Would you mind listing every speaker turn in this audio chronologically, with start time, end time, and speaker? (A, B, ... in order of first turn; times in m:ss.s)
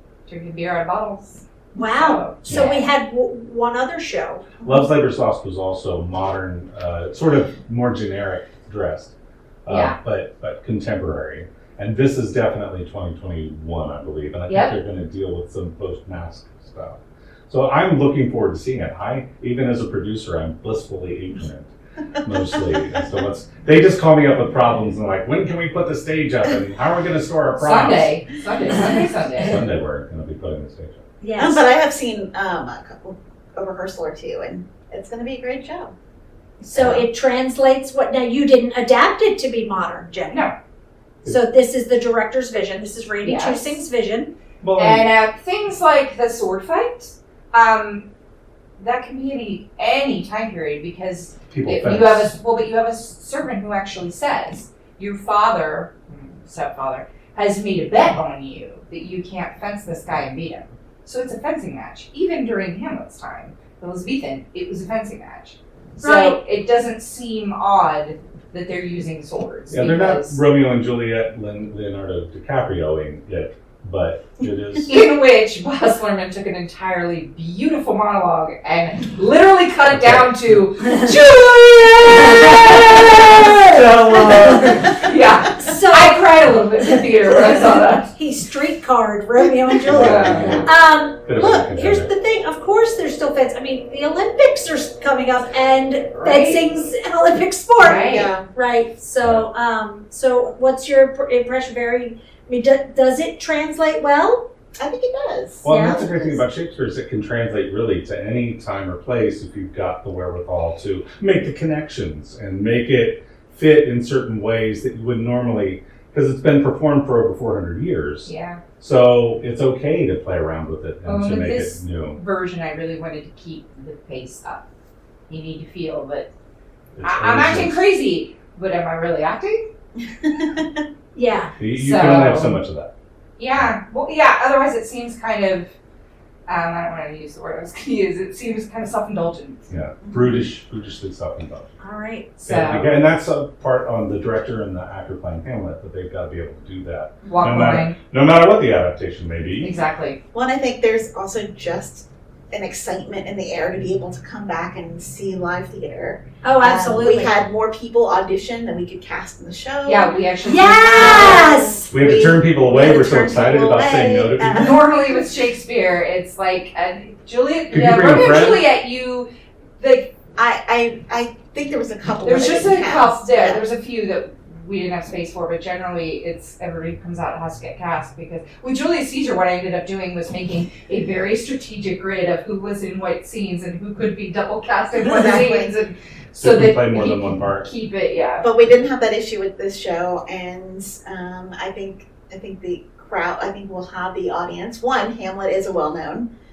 0:00.3-0:02.9 A
0:01.7-0:04.5 B
0:04.6-0:09.1 C
0:09.6-0:21.7 C
0:09.7-0:10.0 A
0:14.5-0:14.8 A
0:22.2-0:28.2 C
0:27.6-0:29.6 A
0:28.8-0:31.0 C
0:31.2-0:31.6 B
0:31.4-0:35.9 D
0:36.6-0:40.4 B
0:36.8-0:37.1 C
0:41.3-0:44.3 B
0:43.2-0:43.8 A
0:44.6-0:45.1 C
0:44.8-0:48.1 A
0:48.8-1:10.4 A
0:51.5-0:52.3 C
1:06.0-1:06.4 B
1:09.7-1:14.9 C
1:14.9-1:28.1 A
1:19.9-1:20.6 C
1:20.8-1:21.1 B
1:22.0-1:24.9 B
1:23.6-1:24.9 C
1:25.6-1:44.5 B
1:29.8-1:30.7 A
1:29.8-1:30.7 C
1:31.2-1:32.1 C
1:36.2-1:36.6 A
1:37.8-1:38.3 A
1:37.8-1:38.5 D
1:44.8-1:46.4 D
1:45.6-2:02.2 C
1:45.7-1:46.0 B
1:58.3-1:58.6 A
2:01.0-2:04.6 A
2:05.3-2:06.3 A
2:07.0-2:07.8 C
2:07.0-2:09.7 A
2:10.2-2:10.8 D
2:11.2-2:11.5 B
2:11.6-2:12.9 C
2:11.8-2:12.6 A
2:13.4-2:15.7 A
2:16.5-2:19.7 A
2:19.7-2:21.7 C
2:20.0-2:20.4 D
2:21.8-2:22.3 B
2:22.4-2:23.0 A
2:22.4-2:29.7 C
2:27.2-2:27.6 D
2:27.3-2:28.0 A
2:29.6-2:30.2 A
2:30.3-2:40.2 D
2:36.4-2:37.3 B
2:39.8-2:41.6 A
2:40.4-2:41.9 B
2:40.8-2:45.2 D
2:41.9-2:44.8 C
2:44.5-2:49.3 A
2:47.7-2:48.6 C
2:49.8-2:50.1 A
2:50.4-2:53.6 D
2:52.2-3:08.5 A
3:04.9-3:05.7 D
3:06.3-3:07.7 C
3:08.4-3:16.3 D